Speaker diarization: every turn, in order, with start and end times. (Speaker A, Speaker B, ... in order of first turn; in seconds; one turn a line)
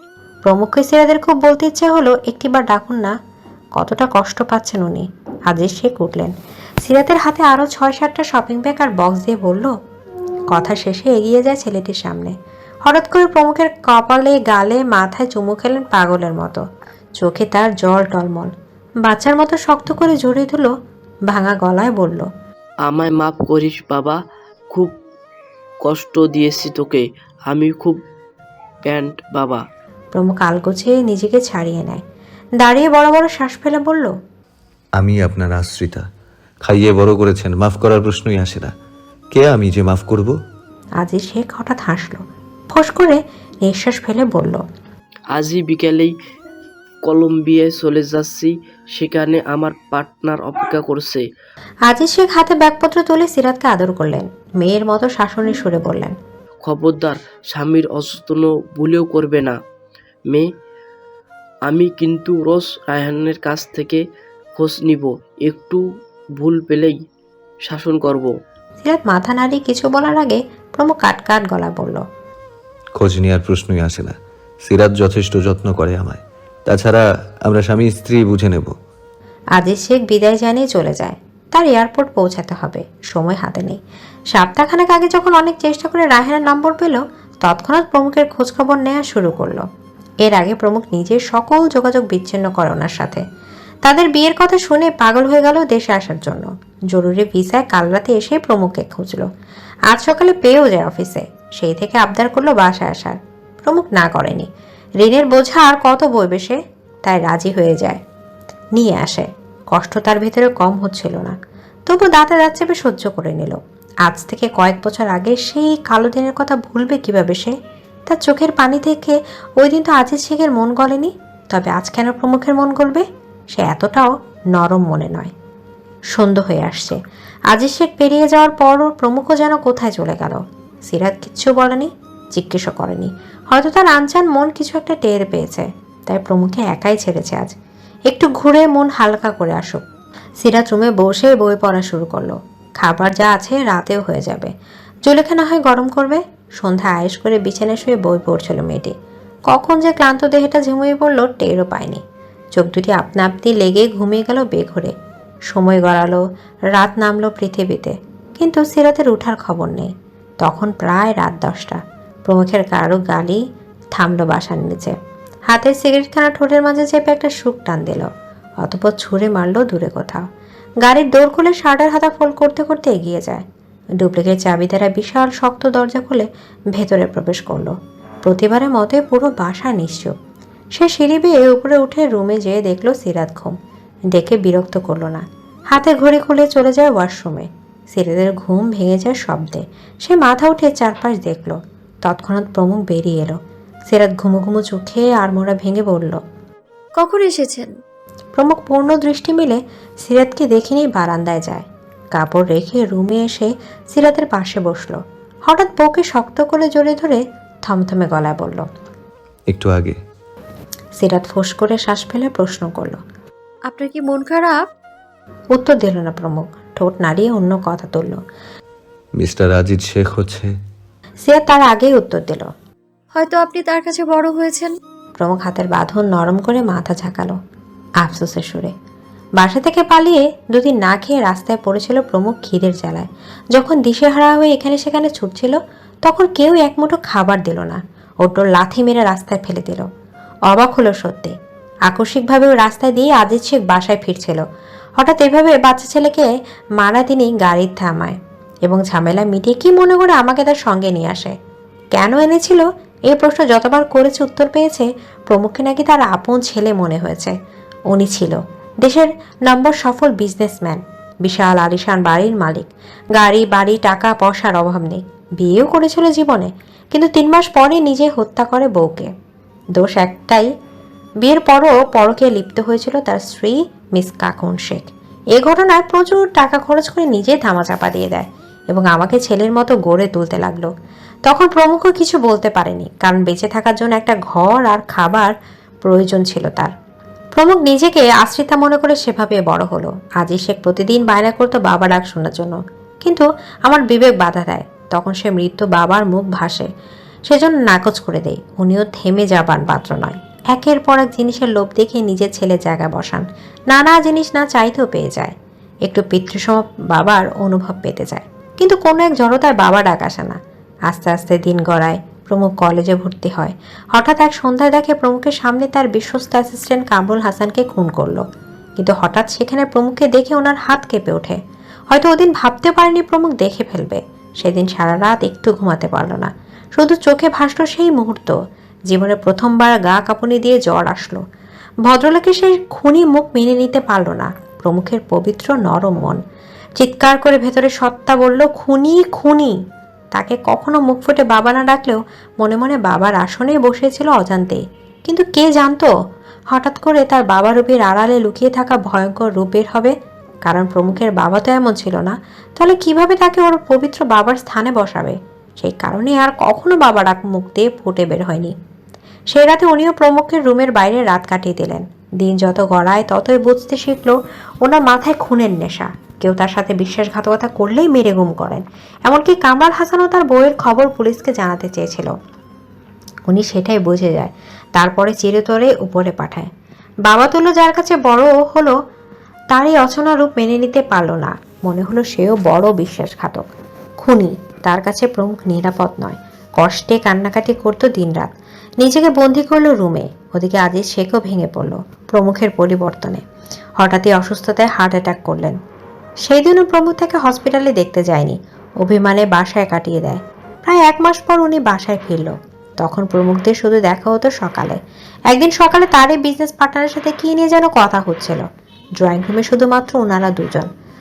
Speaker A: 0.5-3.1
Speaker A: 3.8-6.3
Speaker A: 6.8-9.7
Speaker A: 10.5-12.3
Speaker A: 12.9-16.6
Speaker A: 17.2-18.5
Speaker A: 19.1-20.7
Speaker A: 21.3-22.3
Speaker B: 22.9-24.2
Speaker B: 25.8-28.0
Speaker B: 28.8-29.6
Speaker A: 30.1-32.0
Speaker A: 32.6-34.1
Speaker C: 35.0-36.0
Speaker C: 36.6-38.7
Speaker C: 39.3-40.4
Speaker A: 41.0-44.6
Speaker B: 45.3-46.1
Speaker B: 47.0-51.2
Speaker A: 51.9-56.1
Speaker B: 56.6-59.5
Speaker B: 61.7-64.0
Speaker B: 64.6-65.8
Speaker B: 66.4-66.9
Speaker B: 67.7-68.3
Speaker A: 68.8-72.0
Speaker C: 73.0-78.7
Speaker A: 79.6-83.8
Speaker A: 84.3-89.6
Speaker A: 90.2-93.2
Speaker A: 93.8-99.2
Speaker A: 99.9-104.5
Speaker A: 105.0-108.0
Speaker A: 108.8-111.3
Speaker A: 111.9-117.5
Speaker A: 118.1-125.3
Speaker A: 126.1-127.0
Speaker A: 127.5-137.5
Speaker A: 138.1-139.8
Speaker A: 140.4-144.5
Speaker A: 145.1-148.9
Speaker A: 149.5-152.0
Speaker A: 152.6-154.9
Speaker A: 155.5-156.2
Speaker A: 156.7-159.9
Speaker A: 160.4-163.4
Speaker A: 163.9-164.9
Speaker A: 165.5-168.1
Speaker A: 168.6-170.2
Speaker A: 170.8-173.4
Speaker A: 174.0-180.1
Speaker A: 180.8-183.5
Speaker A: 184.1-193.4
Speaker A: 193.9-196.2
Speaker D: 197.0-197.7
Speaker A: 198.4-208.6
Speaker C: 209.5-210.0
Speaker A: 211.0-213.0
Speaker D: 213.7-214.6
Speaker A: 215.5-218.2
Speaker C: 219.2-220.5
Speaker A: 221.2-222.5
Speaker D: 223.1-224.7
Speaker A: 225.2-227.3
Speaker A: 228.0-228.7
Speaker A: 229.4-239.8
Speaker A: 240.5-241.3
Speaker A: 241.9-244.4
Speaker A: 245.0-246.3
Speaker A: 246.8-251.3
Speaker A: 252.0-257.3
Speaker A: 257.9-269.1
Speaker A: 269.8-270.5
Speaker A: 271.2-274.8
Speaker A: 275.4-280.7
Speaker A: 281.3-285.3
Speaker A: 285.8-286.7
Speaker A: 287.4-296.7
Speaker A: 297.3-305.3
Speaker A: 305.9-310.4
Speaker A: 310.9-318.2
Speaker A: 318.8-321.4
Speaker A: 321.9-328.3
Speaker A: 328.9-331.2
Speaker A: 331.9-336.2
Speaker A: 336.8-339.6
Speaker A: 340.1-345.9
Speaker A: 346.5-349.9
Speaker A: 350.5-358.5
Speaker A: 359.3-372.1
Speaker A: 373.3-376.5
Speaker A: 377.1-378.7
Speaker A: 379.5-383.4
Speaker A: 384.0-388.3
Speaker A: 388.8-393.2
Speaker A: 393.8-395.6
Speaker A: 396.2-404.8
Speaker A: 405.3-408.4
Speaker A: 409.0-410.7